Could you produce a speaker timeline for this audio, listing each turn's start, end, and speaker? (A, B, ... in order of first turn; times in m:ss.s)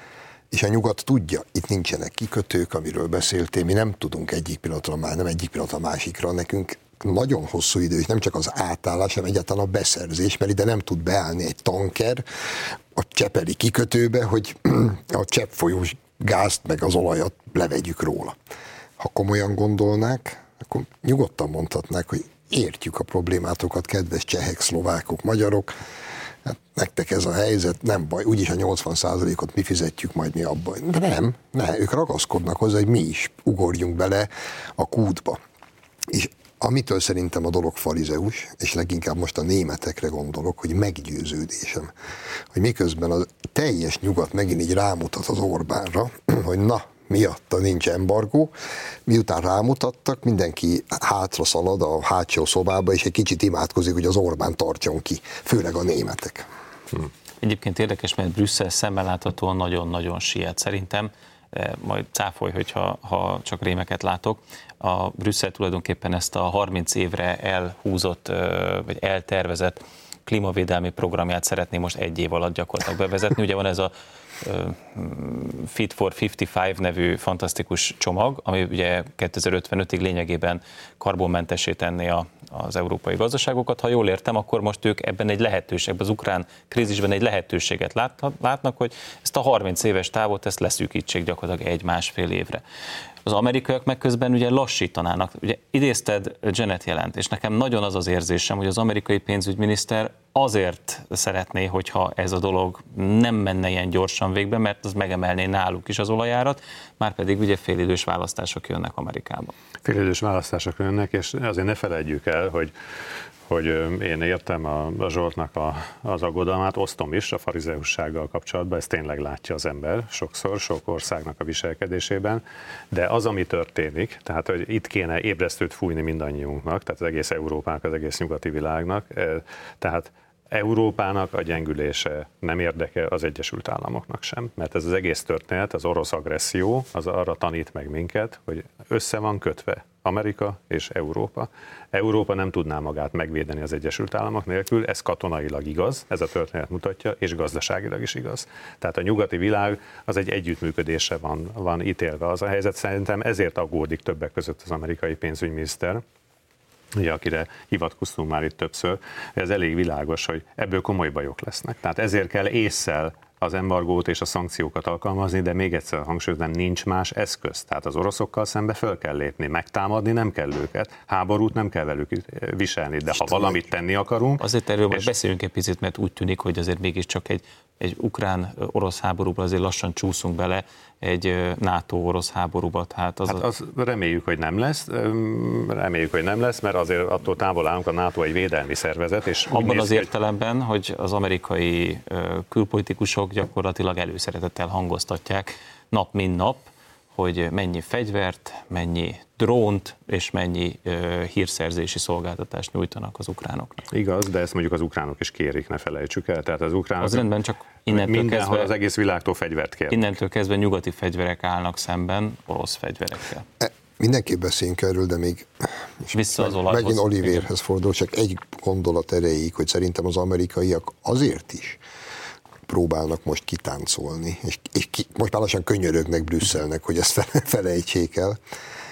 0:00.5-0:18.4 A
0:19.0-0:25.7 A
0:26.4-0:35.4 A
0:36.1-0:41.9 A
0:42.5-0:48.5 A
0:49.0-0:56.5 A
0:57.4-1:32.6 B
1:33.2-1:49.5 B
1:49.8-1:52.7 C
1:53.5-2:36.0 C
2:37.0-2:55.1 C
2:54.4-3:03.4 B
3:03.2-3:10.1 C
3:09.5-3:23.8 B
3:23.9-3:27.3 C
3:27.0-3:28.7 B
3:27.9-3:30.1 C
3:29.9-3:33.4 B
3:33.6-3:41.8 A
3:36.1-3:37.5 B
3:42.7-3:48.4 A